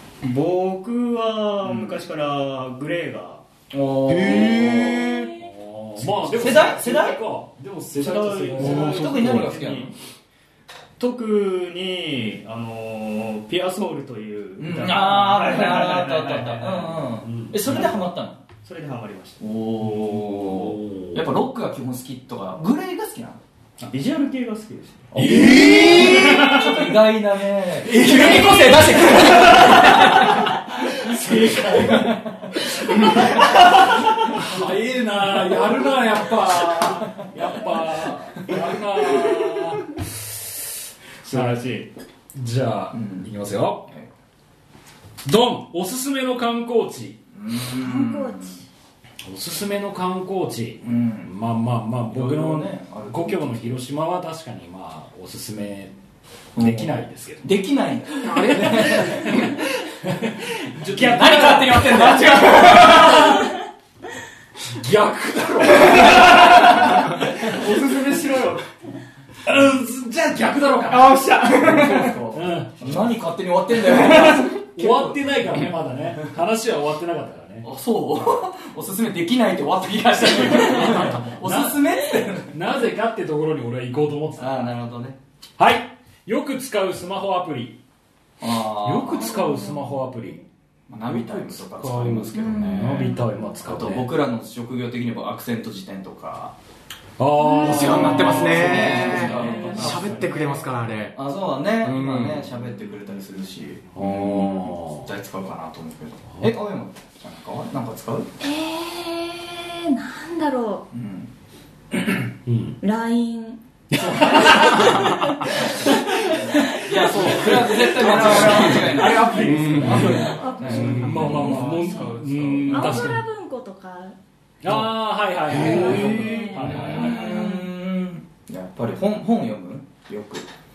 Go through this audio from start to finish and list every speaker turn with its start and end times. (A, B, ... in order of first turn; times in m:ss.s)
0:00.2-0:03.4 A
0:01.6-0:02.0 B
0:03.7-0:05.1 B
0:04.1-0:05.4 C
0:04.3-0:04.7 D
0:05.4-0:09.0 D
0:06.3-0:07.2 B
0:08.0-0:09.9 A
0:08.6-0:09.5 C
0:08.6-0:10.0 B
0:11.0-0:17.1 A
0:14.6-0:18.4 B
0:17.2-0:17.9 D
0:17.7-0:18.1 A
0:18.6-0:19.4 A
0:19.4-0:23.4 B
0:19.8-0:21.3 D
0:23.8-0:26.9 A
0:25.1-0:34.6 B
0:25.2-0:26.8 D
0:27.8-0:40.6 D
0:41.2-0:41.6 D
0:41.2-0:41.9 A
0:42.4-0:43.9 D
0:42.9-0:43.3 B
0:45.2-0:47.2 D
0:47.3-0:48.6 B
0:47.7-0:48.6 E
0:49.2-0:56.0 D
0:50.8-0:51.3 B
0:52.1-0:53.8 B
0:56.6-0:59.6 B
0:56.6-0:57.6 D
0:58.2-1:03.5 D
1:00.9-1:03.5 B
1:04.7-1:07.6 D
1:05.8-1:08.7 A
1:09.5-1:11.2 D
1:10.9-1:12.2 A
1:11.6-1:15.2 B
1:12.3-1:13.1 D
1:14.0-1:14.5 A
1:14.6-1:17.7 D
1:17.6-1:22.6 B
1:20.2-1:21.8 D
1:22.5-1:24.7 D
1:24.4-1:25.2 B
1:25.6-1:27.8 D
1:28.4-1:29.4 B
1:28.8-1:30.4 D
1:29.5-1:29.8 E
1:30.9-1:36.5 B
1:31.1-1:34.1 D
1:32.4-1:33.2 E
1:37.2-1:40.6 D
1:37.4-1:38.0 E
1:37.6-1:41.2 C
1:37.9-1:40.3 B
1:39.1-1:40.5 A
1:41.2-1:48.3 B
1:41.8-1:42.5 C
1:44.0-1:45.1 D
1:48.4-1:50.9 E
1:50.9-1:51.3 B
1:52.5-1:52.8 D
1:52.8-1:56.6 E
1:53.9-2:03.2 D
1:54.0-1:54.8 B
1:55.9-2:03.2 B
1:58.4-2:00.3 C
1:59.1-2:04.2 E
2:00.8-2:02.4 A
2:04.6-2:07.5 D
2:05.5-2:06.5 C
2:05.5-2:07.7 E
2:05.6-2:10.5 B